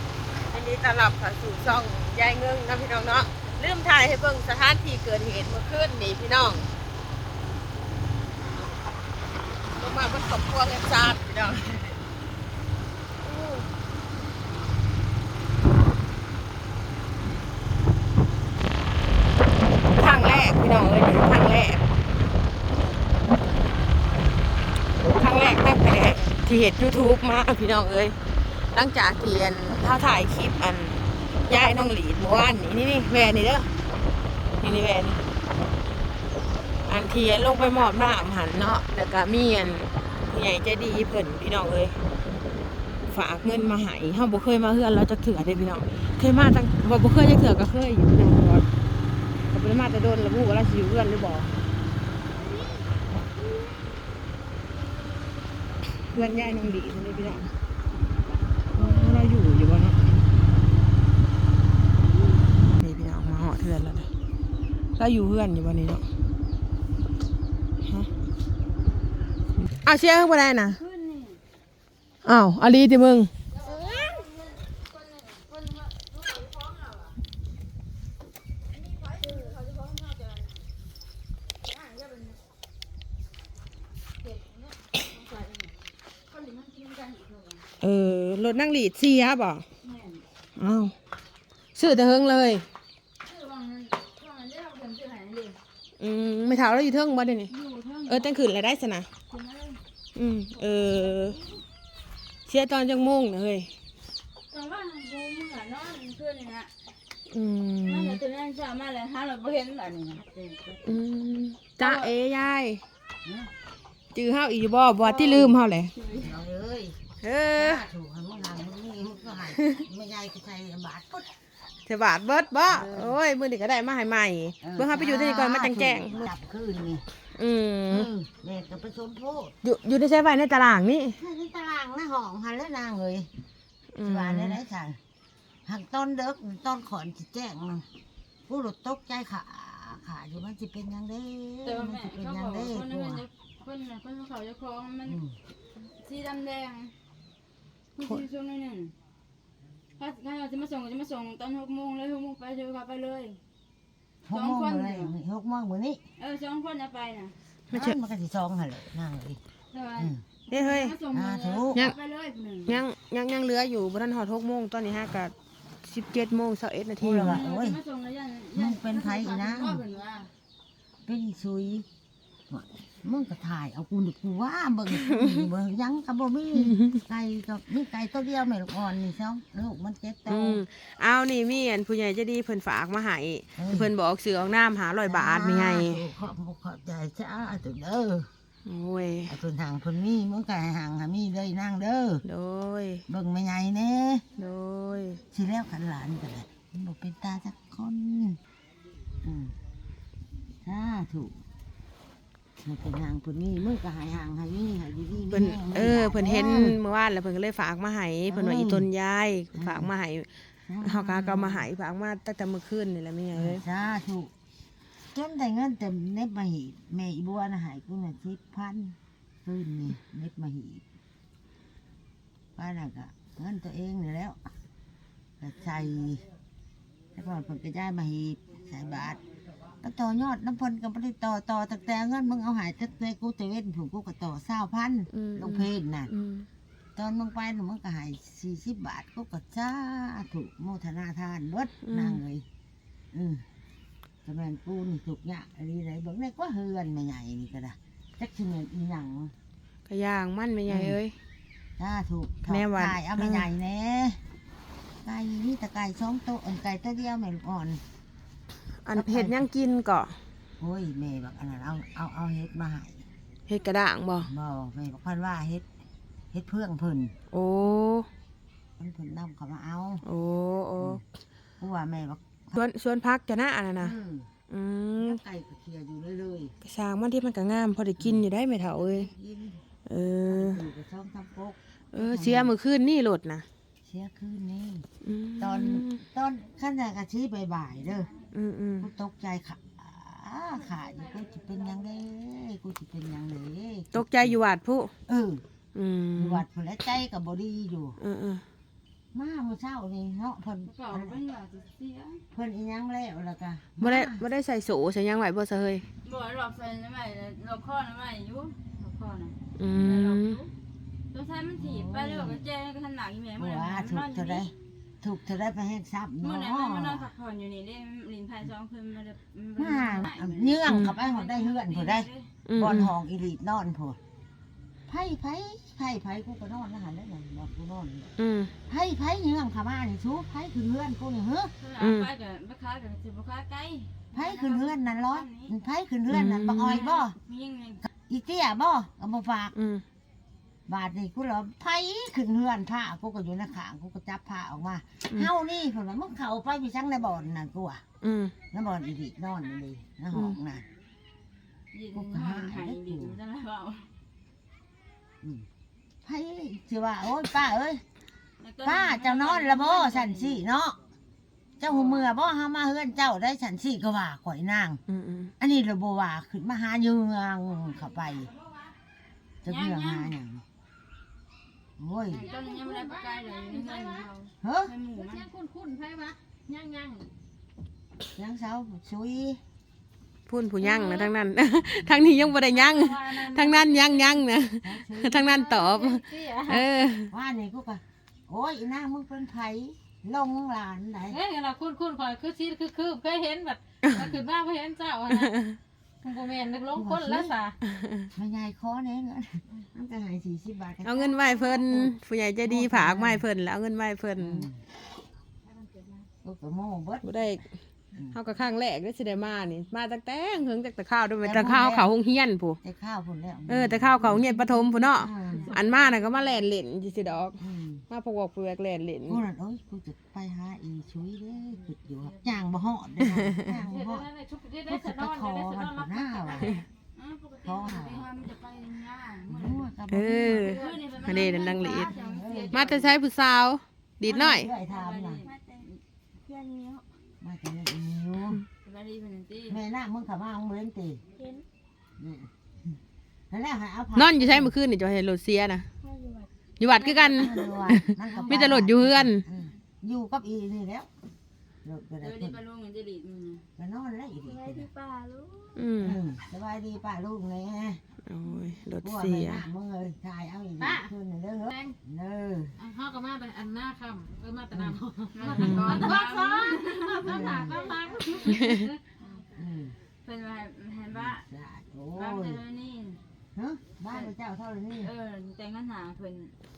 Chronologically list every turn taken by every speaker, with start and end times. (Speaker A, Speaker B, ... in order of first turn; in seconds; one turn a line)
Speaker A: 0.4-6.7
Speaker A: 9.8-12.0
Speaker A: 19.9-21.8
Speaker A: 25.0-28.2
Speaker A: 28.7-33.7
Speaker A: 34.6-35.2
Speaker A: 36.9-42.0
Speaker A: 43.1-48.7
Speaker A: 49.5-51.5
Speaker A: 56.0-57.5
Speaker A: 58.7-60.1
Speaker A: 62.7-64.1
Speaker A: 65.0-66.1
Speaker A: 69.8-70.8
Speaker B: 70.7-71.4
Speaker A: 72.2-73.3
Speaker B: 73.5-77.2
Speaker B: 78.8-80.5
Speaker B: 81.6-82.4
Speaker B: 84.2-85.8
Speaker B: 86.3-87.7
Speaker A: 87.8-89.7
Speaker B: 89.8-90.2
Speaker A: 90.6-90.9
Speaker A: 91.8-92.7
Speaker B: 93.2-95.6
Speaker A: 96.0-97.5
Speaker B: 97.5-98.3
Speaker A: 98.1-99.1
Speaker B: 99.3-99.8
Speaker A: 100.2-101.4
Speaker B: 100.9-101.2
Speaker A: 102.5-103.7
Speaker B: 104.5-106.8
Speaker A: 107.3-108.2
Speaker B: 107.8-110.8
Speaker A: 110.8-112.8
Speaker B: 111.8-112.1
Speaker C: 113.2-113.5
Speaker A: 114.1-115.9
Speaker C: 115.0-121.3
Speaker B: 116.0-116.3
Speaker A: 117.2-117.9
Speaker A: 119.6-119.8
Speaker A: 121.9-126.3
Speaker C: 122.7-123.2
Speaker C: 124.6-127.1
Speaker A: 127.3-128.1
Speaker C: 127.9-129.6
Speaker A: 129.6-131.2
Speaker C: 131.2-133.3
Speaker A: 133.9-134.6
Speaker C: 134.0-135.0
Speaker C: 135.7-137.9
Speaker C: 138.5-143.3
Speaker B: 141.7-145.2
Speaker C: 145.1-145.4
Speaker B: 145.8-146.9
Speaker B: 148.0-148.9
Speaker B: 150.0-153.4
Speaker C: 154.3-156.0
Speaker B: 154.3-155.1
Speaker B: 156.2-157.3
Speaker A: 157.7-158.0
Speaker C: 157.7-159.4
Speaker B: 159.7-162.8
Speaker C: 160.0-160.2
Speaker A: 160.5-161.0
Speaker C: 161.1-161.9
Speaker A: 162.7-167.4
Speaker C: 167.0-167.8
Speaker B: 167.2-170.3
Speaker C: 168.5-169.8
Speaker C: 171.1-171.9
Speaker C: 172.5-180.7
Speaker A: 175.1-175.5
Speaker A: 176.6-177.0
Speaker A: 180.3-186.0
Speaker C: 183.6-183.9
Speaker C: 185.1-188.3
Speaker A: 188.7-189.3
Speaker C: 189.3-192.2
Speaker A: 192.2-193.0
Speaker C: 193.1-194.2
Speaker A: 194.4-195.2
Speaker C: 195.3-198.4
Speaker C: 199.2-199.6
Speaker C: 200.6-201.4
Speaker C: 202.6-206.8
Speaker A: 205.3-210.3
Speaker C: 208.3-208.9
Speaker C: 209.5-209.9
Speaker C: 210.7-211.7
Speaker A: 210.8-213.6
Speaker C: 213.3-214.3
Speaker C: 215.1-220.8
Speaker C: 222.6-224.5
Speaker C: 225.4-226.3
Speaker C: 227.2-229.2
Speaker C: 229.8-236.1
Speaker A: 235.1-236.5
Speaker C: 237.0-242.4
Speaker A: 241.8-242.2
Speaker C: 243.1-243.4
Speaker C: 244.2-249.3
Speaker A: 249.9-251.1
Speaker C: 250.7-251.0
Speaker C: 251.8-254.2
Speaker A: 252.5-253.5
Speaker C: 255.0-257.8
Speaker A: 258.8-260.2
Speaker C: 258.9-259.5
Speaker C: 260.6-263.1
Speaker A: 263.5-264.3
Speaker C: 264.2-265.7
Speaker C: 266.3-267.1
Speaker A: 267.3-268.1
Speaker C: 268.8-270.1
Speaker A: 270.1-271.0
Speaker C: 271.6-272.6
Speaker A: 272.6-273.9
Speaker C: 273.8-274.3
Speaker A: 274.5-275.2
Speaker C: 275.0-276.5
Speaker A: 276.6-279.1
Speaker C: 278.0-279.6
Speaker A: 279.9-280.6
Speaker C: 280.3-282.5
Speaker A: 281.9-283.4
Speaker C: 283.8-284.9
Speaker A: 285.0-286.0
Speaker C: 285.4-288.1
Speaker A: 288.3-288.9
Speaker C: 288.8-294.4
Speaker A: 293.9-294.9
Speaker C: 295.1-295.4
Speaker A: 295.8-296.4
Speaker C: 296.2-298.0
Speaker A: 298.0-298.4
Speaker C: 299.1-301.2
Speaker B: 300.7-302.2
Speaker C: 302.3-304.2
Speaker A: 303.8-305.9
Speaker B: 306.0-310.5
Speaker A: 309.6-310.4
Speaker B: 311.1-314.4
Speaker C: 311.6-312.4
Speaker C: 313.4-317.1
Speaker B: 316.2-322.3
Speaker C: 319.6-324.0
Speaker A: 320.7-321.0
Speaker A: 322.5-322.9
Speaker C: 324.9-328.1
Speaker A: 328.2-328.5
Speaker C: 328.7-331.5
Speaker B: 331.6-335.5
Speaker A: 331.8-332.1
Speaker C: 334.1-337.2
Speaker A: 336.1-336.9
Speaker B: 336.7-337.8
Speaker C: 338.1-339.6
Speaker A: 339.6-339.8
Speaker C: 340.7-347.8
Speaker A: 348.0-348.4
Speaker C: 348.5-350.7
Speaker A: 350.1-350.4
Speaker B: 351.7-353.9
Speaker C: 351.9-353.2
Speaker C: 356.0-357.8
Speaker B: 358.4-360.4
Speaker C: 358.6-360.8
Speaker C: 361.6-364.8
Speaker B: 361.7-362.0
Speaker A: 364.9-365.3
Speaker C: 365.4-368.3
Speaker C: 369.4-370.4
Speaker B: 369.5-370.1
Speaker C: 371.8-372.2
Speaker B: 372.1-375.3
Speaker D: 372.1-374.1
Speaker C: 374.4-374.7
Speaker D: 374.9-377.1
Speaker C: 378.1-379.4
Speaker A: 380.3-387.1
Speaker D: 380.6-381.1
Speaker D: 382.3-384.3
Speaker C: 384.6-385.4
Speaker B: 385.2-386.6
Speaker C: 387.1-391.2
Speaker D: 391.1-395.4
Speaker A: 393.8-394.1
Speaker A: 395.1-395.6
Speaker D: 396.0-397.6
Speaker C: 396.7-397.4
Speaker A: 397.7-398.1
Speaker C: 398.2-403.3
Speaker A: 400.8-404.5
Speaker C: 404.2-404.6
Speaker C: 406.2-407.2
Speaker A: 407.0-407.4
Speaker A: 408.1-412.6
Speaker C: 411.2-411.9
Speaker C: 412.6-414.3
Speaker A: 413.5-419.2
Speaker D: 414.4-414.8
Speaker C: 414.9-415.6
Speaker B: 415.2-415.9
Speaker C: 417.4-417.9
Speaker C: 419.1-424.1
Speaker A: 423.1-423.5
Speaker D: 423.5-426.6
Speaker C: 424.6-426.6
Speaker B: 426.9-429.7
Speaker C: 427.4-428.1
Speaker C: 429.3-430.5
Speaker A: 429.9-431.9
Speaker D: 430.4-432.0
Speaker B: 430.4-432.9
Speaker C: 431.9-432.7
Speaker A: 432.5-434.5
Speaker C: 434.0-435.2
Speaker B: 434.7-435.8
Speaker D: 436.3-436.8
Speaker C: 437.2-438.4
Speaker B: 438.6-439.6
Speaker C: 439.5-441.0
Speaker C: 442.0-442.8
Speaker C: 443.3-444.6
Speaker A: 444.0-445.7
Speaker D: 445.9-446.3
Speaker A: 446.6-449.2
Speaker B: 446.8-447.4
Speaker C: 447.1-450.9
Speaker C: 451.6-452.4
Speaker B: 452.0-453.4
Speaker C: 453.6-454.7
Speaker D: 454.3-455.5
Speaker A: 455.6-456.0
Speaker C: 455.8-457.8
Speaker A: 458.1-459.5
Speaker C: 458.8-462.6
Speaker D: 460.6-460.9
Speaker D: 461.5-461.8
Speaker D: 462.6-468.8
Speaker C: 464.5-466.0
Speaker B: 465.1-467.0
Speaker A: 465.4-465.9
Speaker C: 467.0-467.8
Speaker B: 468.1-468.4
Speaker A: 468.2-468.7
Speaker C: 469.3-469.8
Speaker B: 470.0-471.2
Speaker C: 470.9-472.4
Speaker B: 472.0-473.0
Speaker C: 473.4-474.9
Speaker B: 474.8-476.4